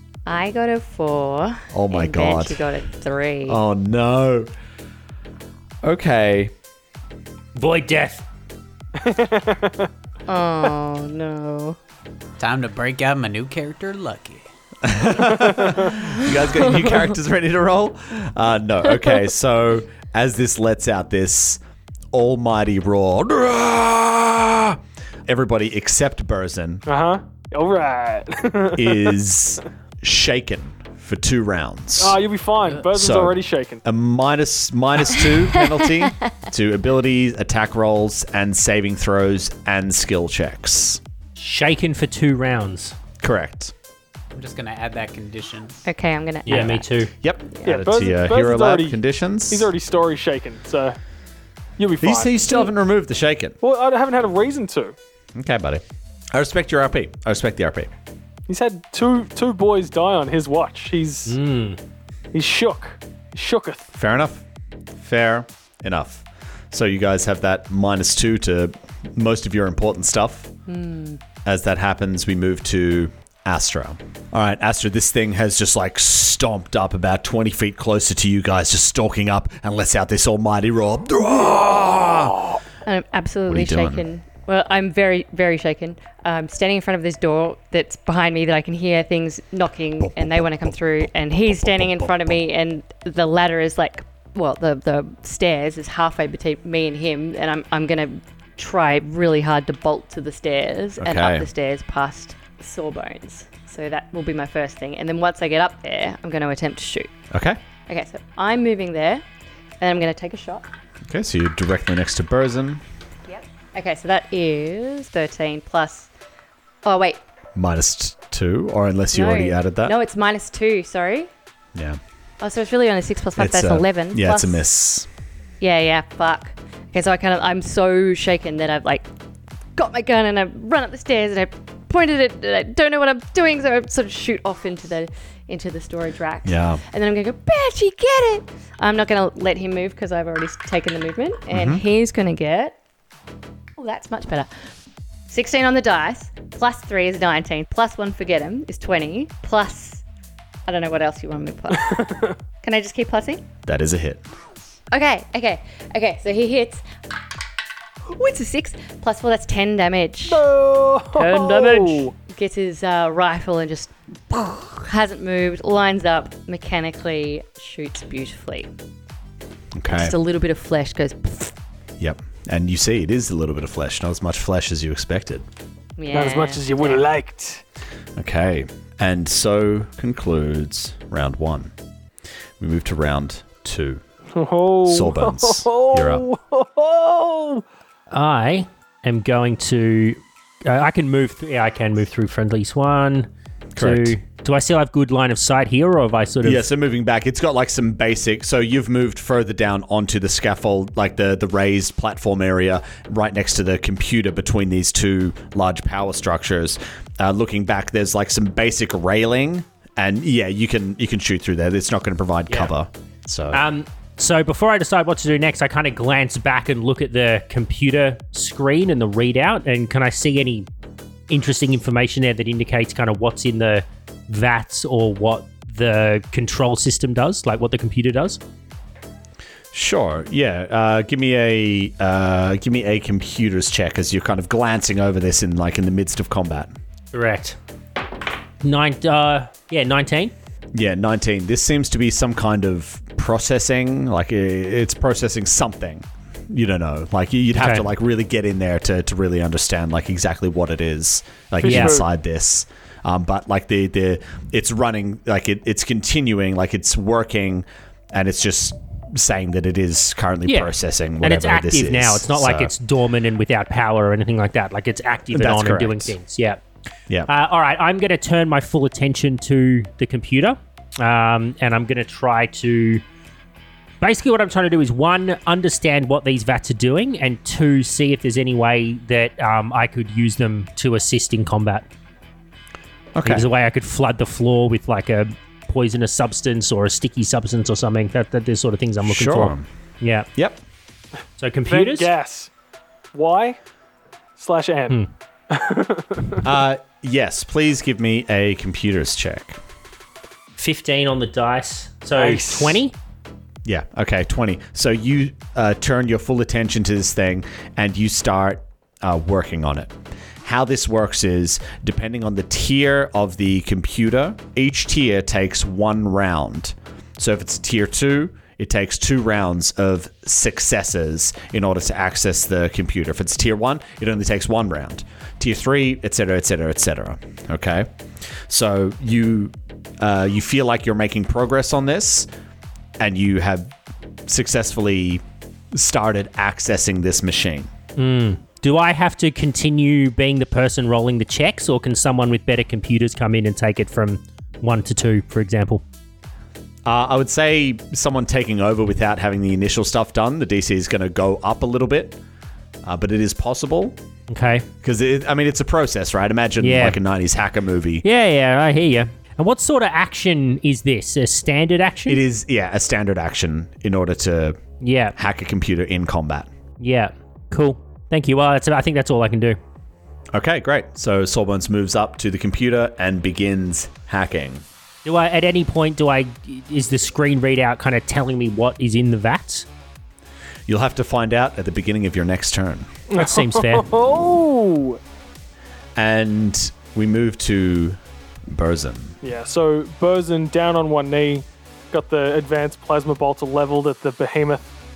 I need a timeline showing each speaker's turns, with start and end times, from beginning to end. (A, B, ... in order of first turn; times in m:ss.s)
0:00.3-0:03.6 A
0:01.7-0:02.7 B
0:03.5-0:04.5 B
0:05.8-0:06.5 B
0:07.6-0:08.2 C
0:09.0-0:09.9 D
0:10.3-0:11.8 A
0:12.4-0:14.5 E
0:14.8-0:21.6 B
0:15.4-0:15.8 D
0:22.1-0:26.8 B
0:26.9-0:29.2 D
0:28.8-0:32.2 B
0:32.0-0:33.8 D
0:32.9-0:41.0 B
0:35.8-0:36.1 A
0:41.4-0:43.0 C
0:43.2-0:43.7 B
0:44.3-0:45.8 E
0:45.9-0:46.9 A
0:46.5-0:47.1 C
0:47.2-0:49.7 B
0:47.6-0:51.0 D
0:51.8-0:52.4 D
0:52.0-0:53.6 B
0:53.6-0:55.0 D
0:55.4-0:57.9 B
0:58.5-1:01.4 D
1:01.3-1:01.8 C
1:02.3-1:03.9 D
1:03.9-1:04.4 B
1:05.0-1:10.5 B
1:10.7-1:11.2 A
1:11.4-1:22.6 B
1:22.8-1:47.1 A
1:23.5-1:24.0 B
1:30.0-1:30.7 B
1:31.5-1:32.4 B
1:41.0-1:41.5 B
1:47.3-1:47.6 B
1:47.9-1:49.2 A
1:49.8-1:50.7 A
1:51.1-1:52.8 B
1:53.3-1:56.1 A
1:56.8-1:57.2 A
1:57.6-2:00.0 B
1:59.1-2:01.3 A
2:02.4-2:04.6 A
2:03.4-2:05.1 B
2:05.6-2:09.1 A
2:09.8-2:22.8 A
2:16.4-2:16.8 B
2:21.5-2:21.8 B
2:23.8-2:24.5 A
2:25.3-2:30.0 A
2:30.7-2:33.4 A
2:31.8-2:32.4 D
2:33.7-2:34.2 B
2:34.9-2:36.8 A
2:38.1-2:40.5 A
2:40.3-2:42.1 D
2:41.2-2:48.7 A
2:49.8-2:50.2 B
2:49.9-2:51.6 A
2:52.0-2:55.5 B
2:56.0-2:57.0 A
2:56.1-2:57.6 D
2:58.2-3:01.7 B
3:02.6-3:04.0 B
3:04.3-3:07.6 D
3:04.9-3:06.2 B
3:08.1-3:16.7 C
3:13.7-3:14.2 B
3:16.4-3:33.6 B
3:33.5-3:40.7 C
3:41.3-3:48.4 C
3:49.7-3:56.7 B
3:57.1-3:57.6 C
3:58.6-4:00.3 C
4:00.7-4:22.7 B
4:07.6-4:07.9 C
4:11.6-4:12.1 D
4:11.6-4:12.0 C
4:20.5-4:26.6 C
4:25.3-4:26.2 B
4:27.3-4:33.0 C
4:34.0-4:41.9 C
4:43.2-4:43.5 B
4:43.2-4:50.3 C
4:49.0-4:49.7 B
4:50.4-4:50.6 B
4:51.4-4:52.1 C
4:51.7-4:52.5 D
4:53.1-4:53.6 D
4:54.4-4:56.5 D
4:56.4-4:59.6 B
5:00.6-5:02.9 C
5:02.2-5:02.8 D
5:03.6-5:27.9 B
5:28.5-5:32.3 B
5:33.0-5:33.8 B
5:34.3-5:37.7 B
5:38.0-5:45.8 C
5:46.9-5:52.2 B
5:52.8-5:54.0 B
5:54.3-5:54.7 C
5:54.8-5:58.0 B
5:56.6-5:57.0 C
5:58.0-6:02.2 C
6:02.1-6:04.6 B
6:04.8-6:05.2 C
6:05.2-6:06.5 B
6:06.8-6:09.6 C
6:10.3-6:14.6 B
6:15.0-6:19.7 C
6:20.7-6:22.9 B
6:23.1-6:25.0 D
6:23.2-6:23.9 C
6:26.0-6:29.2 B
6:29.2-6:34.7 D